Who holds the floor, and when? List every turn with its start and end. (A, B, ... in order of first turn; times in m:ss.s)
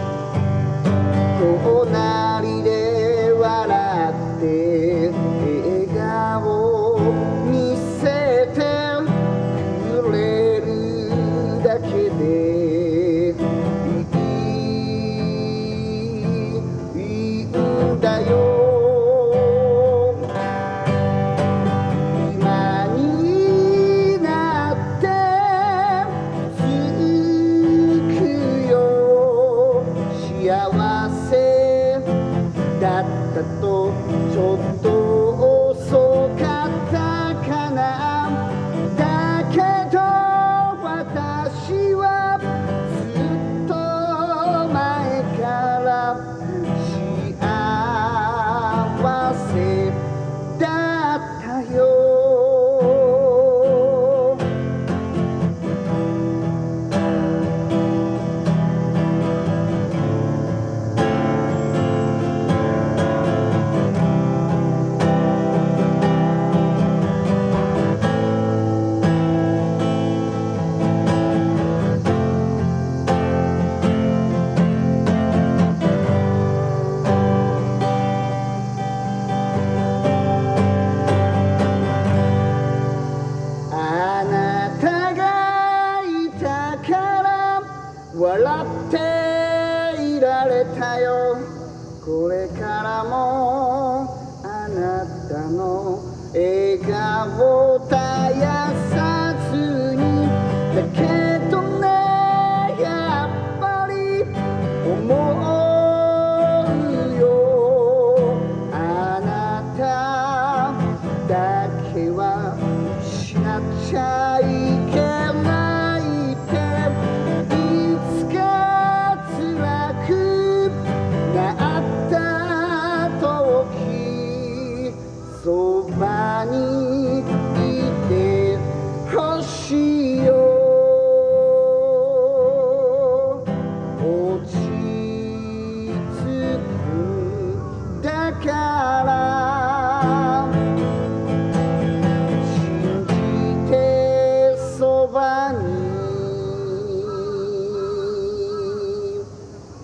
0:01.2-0:20.3 A
0:21.9-0:32.1 A
0:32.7-0:54.4 A
1:23.7-2:13.4 A
2:14.0-2:20.6 A
2:22.4-2:29.2 A